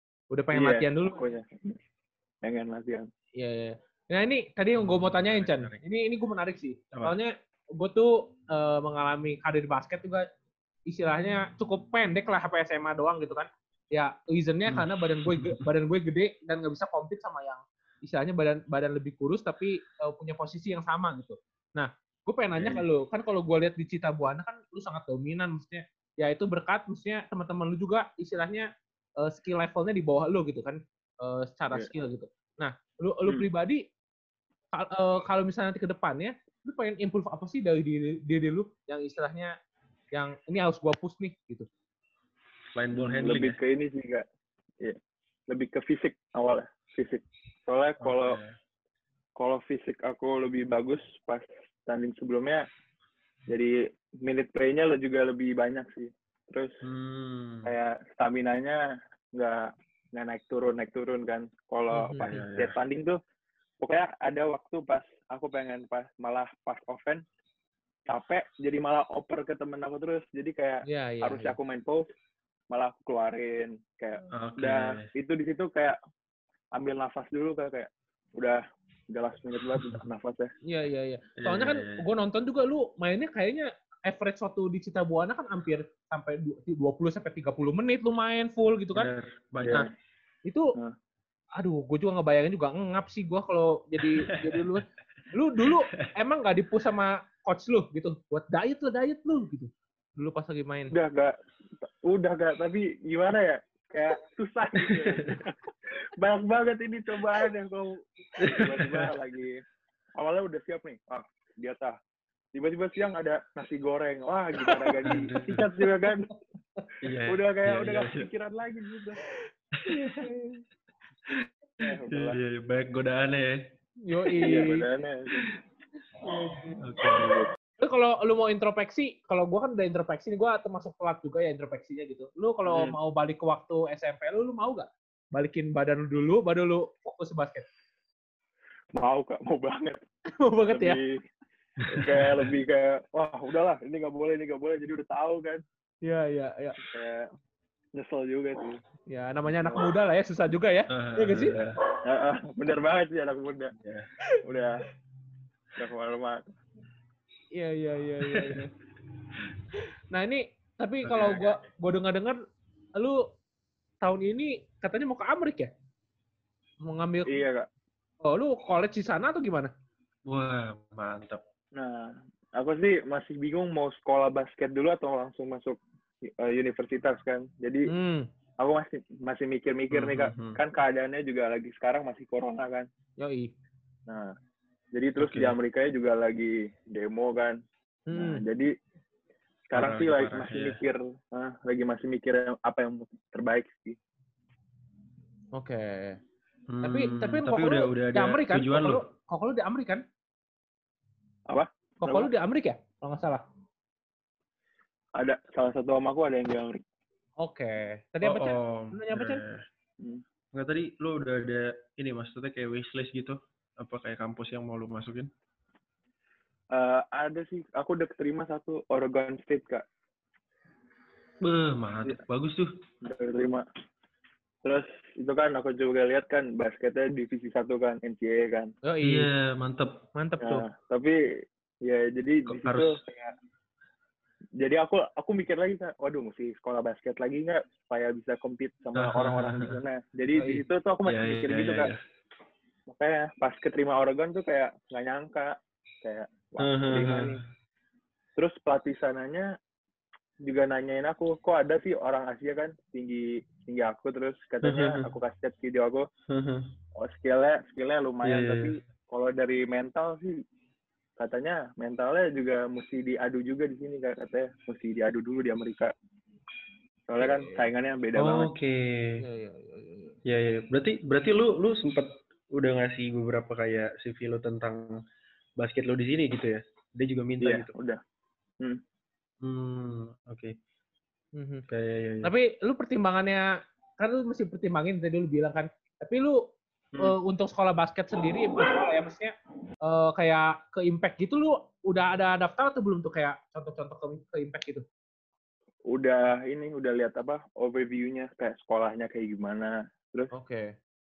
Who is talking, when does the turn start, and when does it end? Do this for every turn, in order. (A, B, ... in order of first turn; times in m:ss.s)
0:00.3-0:01.2 A
0:00.5-0:01.8 B
0:02.4-0:03.1 B
0:03.4-0:10.3 A
0:04.8-0:05.8 C
0:06.9-0:07.2 C
0:10.9-0:33.8 A
0:14.7-0:15.6 C
0:22.6-0:22.8 C
0:34.7-0:39.6 A
0:40.1-0:41.7 A
0:42.7-0:43.6 C
0:42.9-0:44.2 B
0:45.5-0:48.4 B
0:48.0-0:48.5 C
0:49.4-0:52.6 B
0:53.5-0:56.8 B
0:56.8-0:57.7 C
0:57.6-0:58.8 B
0:59.3-1:03.2 B
1:01.9-1:02.3 A
1:02.3-1:02.7 C
1:03.8-1:07.2 B
1:08.1-1:12.1 B
1:10.9-1:11.6 A
1:12.7-1:16.0 B
1:14.3-1:15.0 C
1:16.7-1:20.5 B
1:20.7-1:29.1 A
1:21.4-1:22.0 C
1:28.9-1:29.9 C
1:29.6-1:29.9 B
1:30.5-1:30.7 A
1:31.6-1:40.9 A
1:34.2-1:34.8 C
1:35.6-1:36.1 C
1:40.9-1:45.6 B
1:44.8-1:45.4 C
1:46.2-1:49.6 B
1:48.4-1:49.1 C
1:50.2-1:52.0 B
1:52.5-1:56.3 B
1:54.7-1:55.1 A
1:55.0-1:55.7 C
1:57.0-1:58.3 C
1:57.2-1:59.2 B
1:59.8-2:00.3 C
1:59.9-2:00.6 A
2:01.3-2:03.6 C
2:01.8-2:02.4 B
2:04.0-2:04.9 A
2:04.4-2:05.5 B
2:06.2-2:06.8 A
2:06.8-2:07.3 C
2:07.0-2:07.5 B
2:07.8-2:17.7 A
2:12.7-2:12.9 B
2:18.9-2:20.0 B
2:20.4-2:21.0 A
2:20.7-2:21.2 B
2:21.8-2:22.5 C
2:21.9-2:25.6 B
2:26.0-2:26.8 A
2:26.8-2:27.3 B
2:28.0-2:28.8 B
2:29.1-2:31.6 A
2:30.9-2:31.8 C
2:32.0-2:33.7 B
2:33.8-2:34.1 C
2:34.4-2:34.8 B
2:35.8-2:36.4 B
2:37.5-2:38.7 A
2:38.2-2:38.7 C
2:40.1-2:42.4 A
2:41.0-2:41.5 C
2:43.0-2:43.3 A
2:44.0-2:45.7 A
2:46.8-2:47.3 A
2:47.2-2:47.7 B
2:48.2-2:49.7 A
2:50.2-2:51.4 C
2:51.7-2:57.9 B
2:57.9-2:58.3 A
2:58.6-3:02.9 B
2:59.9-3:00.6 C
3:03.2-3:03.5 A
3:04.1-3:04.3 B
3:04.9-3:07.6 B
3:05.2-3:05.5 C
3:08.1-3:08.4 A
3:08.1-3:08.7 B
3:09.7-3:14.0 B
3:09.7-3:10.8 C
3:15.5-3:16.2 A
3:16.7-3:19.0 C
3:16.8-3:20.0 A
3:21.5-3:22.3 B
3:22.0-3:23.4 A
3:25.2-3:26.8 B
3:27.4-3:29.4 A
3:28.2-3:29.6 C
3:30.5-3:35.3 C
3:36.7-3:39.8 B
3:41.4-3:42.7 C
3:43.0-3:43.6 B
3:44.6-3:48.7 B
3:48.8-3:49.3 A
3:49.0-3:50.0 C
3:50.1-3:50.6 A
3:50.4-3:53.3 B
3:52.5-3:53.0 C
3:54.6-4:01.9 B
3:59.0-3:59.8 C
4:00.4-4:00.6 A
4:01.0-4:02.0 C
4:02.9-4:07.4 B
4:06.6-4:07.4 C
4:08.4-4:09.5 B
4:10.4-4:16.1 B
4:14.6-4:15.1 C
4:16.3-4:16.7 C
4:17.0-4:20.4 B
4:18.2-4:18.7 C
4:21.2-4:25.9 B
4:27.1-4:28.5 B
4:27.2-4:27.6 A
4:28.2-4:29.2 C
4:29.2-4:30.2 A
4:30.2-4:35.0 C
4:35.6-4:37.7 C
4:37.4-4:38.0 B
4:39.4-4:40.5 C
4:41.3-4:41.6 A
4:41.7-4:42.3 C
4:42.2-4:46.5 A
4:47.0-4:54.8 A
4:55.9-5:00.3 B
5:00.3-5:00.7 A